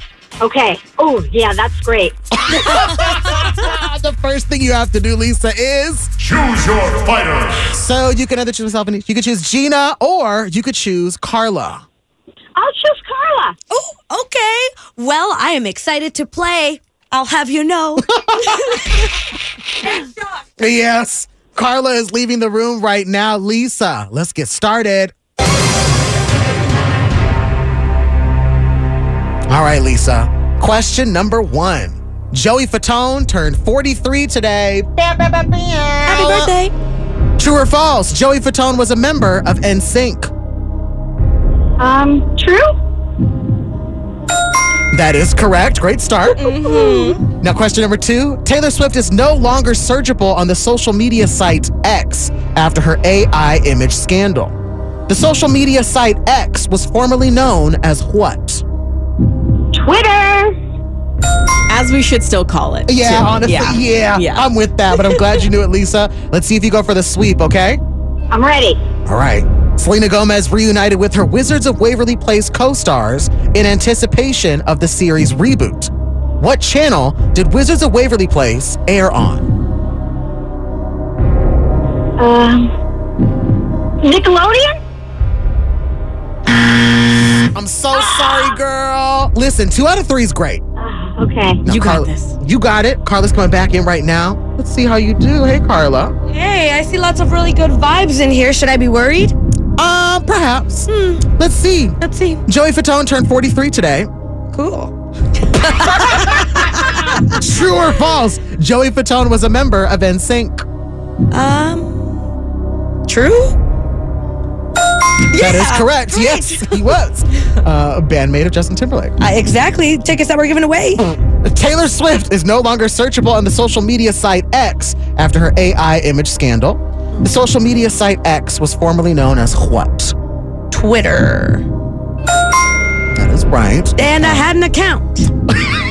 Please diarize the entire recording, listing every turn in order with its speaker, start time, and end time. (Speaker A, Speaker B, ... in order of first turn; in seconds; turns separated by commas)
Speaker A: 0.4-2.1, Speaker B: 2.5-11.8, Speaker A: 12.6-13.5, Speaker C: 13.7-19.1, Speaker B: 18.1-18.8, Speaker B: 20.6-25.1, Speaker B: 29.5-36.5, Speaker C: 36.0-36.7, Speaker B: 37.4-40.3, Speaker A: 41.8-42.7, Speaker B: 44.9-46.5, Speaker C: 46.4-47.2, Speaker B: 47.2-54.5, Speaker B: 55.1-58.6, Speaker A: 59.8-60.5, Speaker D: 61.7-64.4, Speaker B: 62.9-67.8, Speaker A: 68.3-68.8, Speaker B: 69.0-79.5, Speaker A: 82.2-82.7, Speaker A: 84.0-84.7, Speaker B: 87.5-90.6, Speaker A: 90.8-91.6, Speaker B: 91.7-96.1, Speaker C: 91.7-92.3, Speaker C: 96.3-99.3, Speaker B: 99.8-104.1, Speaker C: 100.9-101.2, Speaker C: 102.0-102.4, Speaker C: 104.5-104.9, Speaker C: 105.5-107.4, Speaker B: 106.2-110.6, Speaker C: 111.3-112.0, Speaker C: 113.1-113.5, Speaker C: 115.2-117.0, Speaker B: 115.3-119.1, Speaker C: 119.2-121.0, Speaker B: 121.4-130.1, Speaker C: 130.7-131.7, Speaker B: 133.1-134.5, Speaker C: 134.0-135.3